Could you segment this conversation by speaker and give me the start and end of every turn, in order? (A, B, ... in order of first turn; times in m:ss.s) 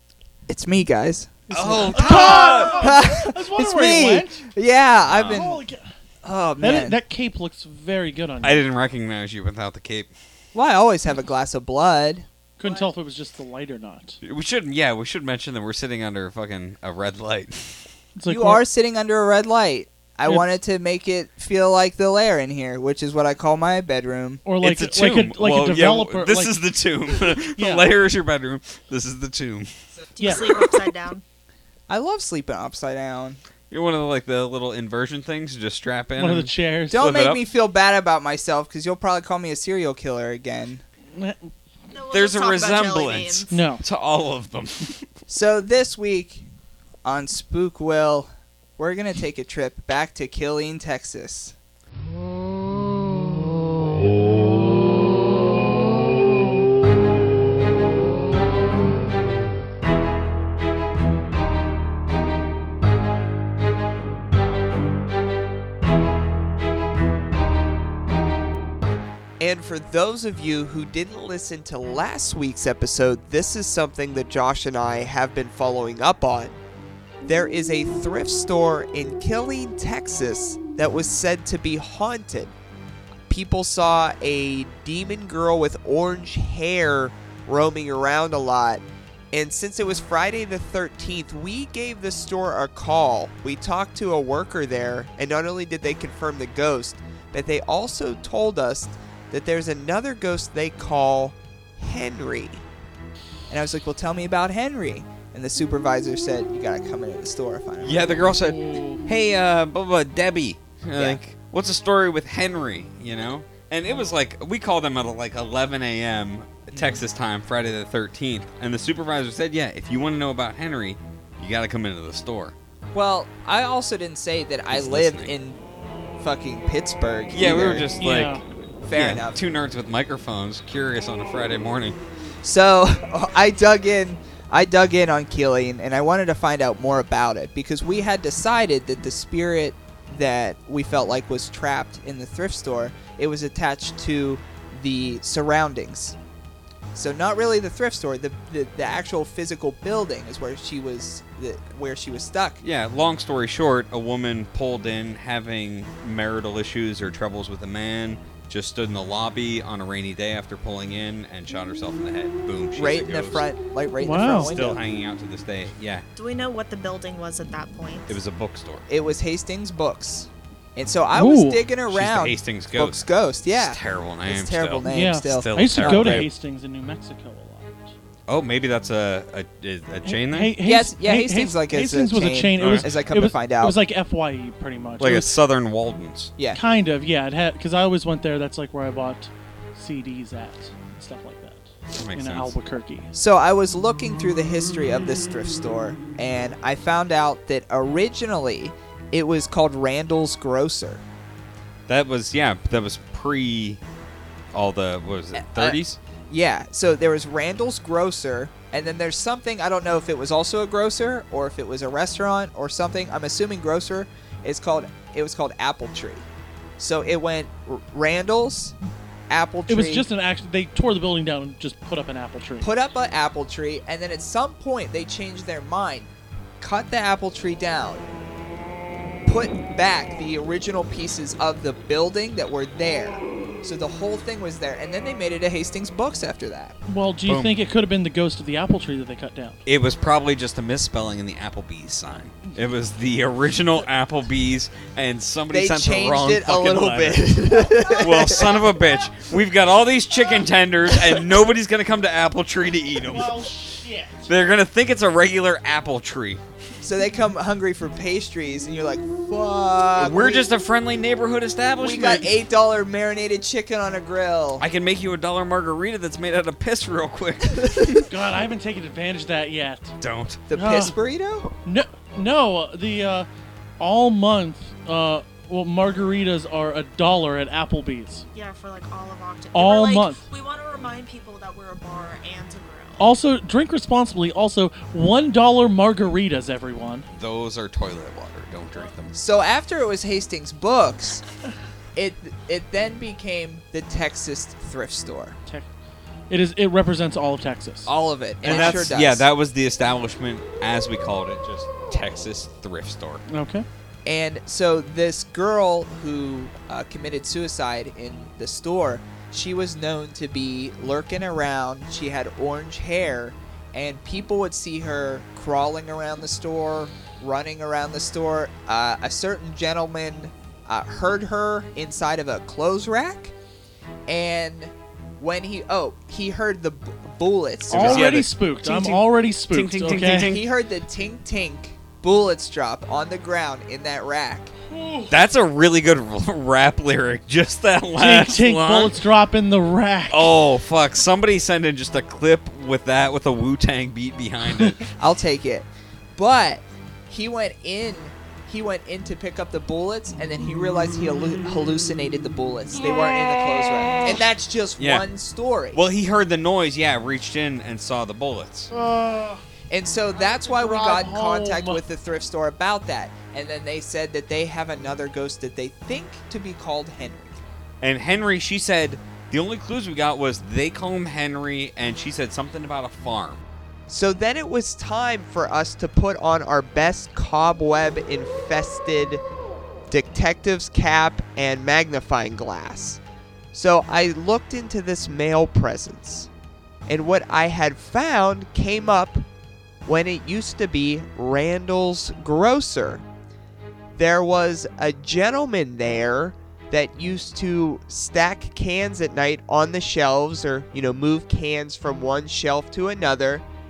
0:00.5-0:05.6 A
0:01.5-0:02.9 B
0:01.8-0:04.4 C
0:05.0-0:05.4 B
0:05.3-0:05.9 C
0:06.2-0:07.0 A
0:06.6-0:08.6 C
0:08.4-0:10.1 B
0:10.5-0:12.3 A
0:12.6-0:14.2 C
0:14.2-0:17.8 B
0:18.2-0:18.6 C
0:18.2-0:24.4 A
0:20.3-0:20.6 C
0:24.4-0:26.6 C
0:24.6-0:29.7 B
0:27.5-0:27.9 C
0:30.2-0:31.2 D
0:30.2-0:30.4 C
0:31.9-0:33.4 A
0:33.7-0:37.4 B
0:36.2-0:37.1 C
0:36.9-0:40.8 A
0:41.1-0:41.5 C
0:41.9-0:43.5 D
0:42.1-0:45.1 B
0:43.5-0:43.8 C
0:45.3-0:46.5 A
0:47.0-0:51.5 A
1:09.4-1:16.6 A
1:17.2-1:22.5 A
1:23.3-1:42.6 A
1:43.5-1:48.3 A
1:47.8-2:02.5 B
1:48.5-1:49.0 C
1:56.7-1:57.0 A
2:02.9-2:05.6 A
2:04.7-2:05.3 B
2:06.2-2:07.9 A
2:07.3-2:12.0 B
2:08.0-2:08.4 C
2:08.8-2:09.4 A
2:12.4-2:26.2 A
2:26.9-2:32.6 A
2:32.6-2:43.4 B
2:42.7-2:44.8 A
2:44.0-2:44.5 C
2:44.3-2:46.0 B
2:46.1-2:48.2 D
2:48.1-2:48.8 B
2:48.9-2:56.3 A
2:51.1-2:51.6 C
2:51.9-2:56.3 B
2:54.9-2:57.9 C
2:58.3-3:00.6 B
3:00.0-3:05.3 C
3:00.6-3:03.8 A
3:02.6-3:02.9 B
3:05.0-3:06.3 B
3:06.5-3:13.1 C
3:11.9-3:12.5 B
3:13.1-3:21.0 A
3:21.9-3:23.8 B
3:24.5-3:26.0 B
3:25.3-3:25.8 A
3:26.3-3:36.3 A
3:36.8-3:38.8 A
3:39.3-3:40.1 A
3:39.7-3:42.7 C
3:42.6-3:48.0 A
3:49.2-3:56.8 A
3:56.9-3:59.6 C
3:57.2-3:57.5 B
3:59.6-4:13.5 B
4:05.5-4:08.7 A
4:13.0-4:14.4 C
4:14.3-4:16.4 B
4:16.8-4:20.5 A
4:20.0-4:22.4 B
4:21.8-4:24.6 A
4:24.6-4:28.0 B
4:27.6-4:27.9 A
4:28.1-4:29.9 C
4:30.0-4:30.4 B
4:30.5-4:31.5 A
4:30.5-4:30.9 C
4:31.6-4:33.3 C
4:33.8-4:38.2 C
4:38.3-4:43.1 D
4:39.5-4:40.2 C
4:43.0-4:47.1 C
4:47.1-4:49.2 B
4:49.1-4:51.2 A
4:52.0-4:55.4 A
4:56.3-4:57.9 C
4:57.8-4:59.3 A
4:58.4-5:03.2 B
4:58.5-4:58.7 C
5:03.3-5:03.6 C
5:04.0-5:23.3 A
5:24.1-5:28.1 A
5:27.7-5:30.3 C
5:27.7-5:30.5 B
5:30.2-5:34.5 A
5:34.7-5:35.1 C
5:35.1-5:39.0 B
5:38.0-5:40.3 C
5:40.1-5:44.9 B
5:45.0-5:55.8 A
5:54.8-5:55.0 B
5:55.7-5:58.7 B
5:58.7-5:59.4 C
5:59.7-6:07.4 A
6:00.2-6:01.8 C
6:07.8-6:13.4 B
6:13.9-6:19.2 A
6:19.9-6:23.0 A
6:23.5-6:26.3 A
6:26.9-6:29.2 A
6:29.8-6:33.0 A
6:34.0-6:43.4 A